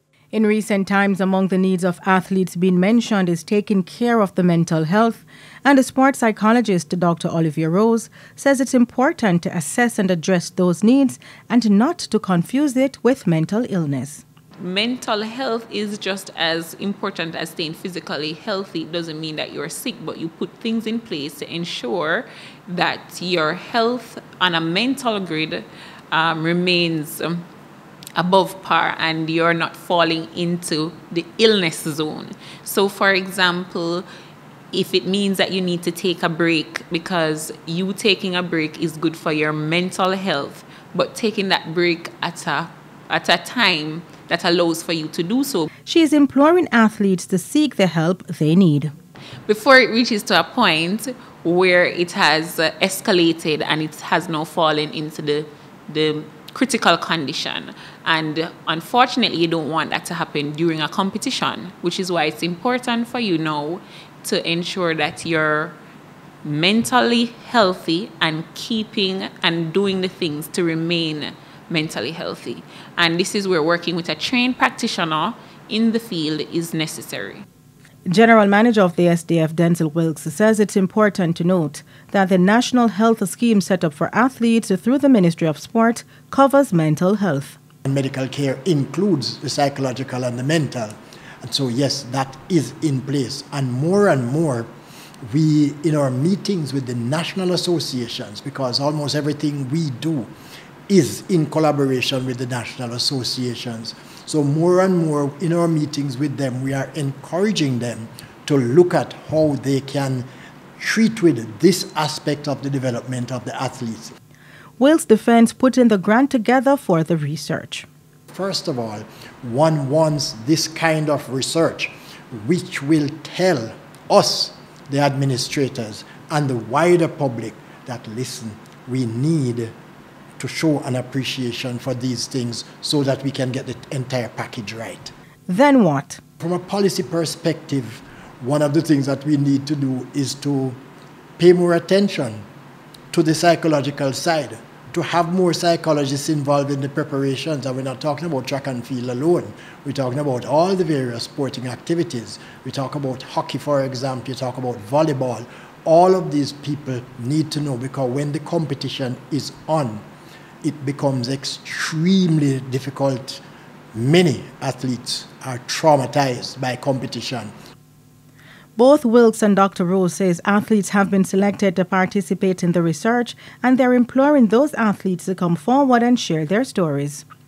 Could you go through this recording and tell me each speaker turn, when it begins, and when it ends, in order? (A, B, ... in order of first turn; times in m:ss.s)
0:00.3-0:14.2 A
0:14.6-0:27.4 B
0:28.2-0:34.0 B
0:34.7-0:45.7 B
0:45.9-0:48.9 A
0:49.5-1:05.8 B
1:06.4-1:17.4 B
1:18.1-1:27.6 A
1:27.9-1:34.7 C
1:35.2-1:40.3 C
1:40.9-1:54.2 C
1:54.8-1:57.9 A
1:58.3-2:09.7 C
2:10.4-2:15.1 C
2:15.5-2:16.2 A
2:16.4-2:20.8 C
2:21.4-2:22.4 C
2:23.1-2:40.0 C
2:40.6-2:43.4 C
2:43.9-2:47.5 C
2:48.8-2:57.2 A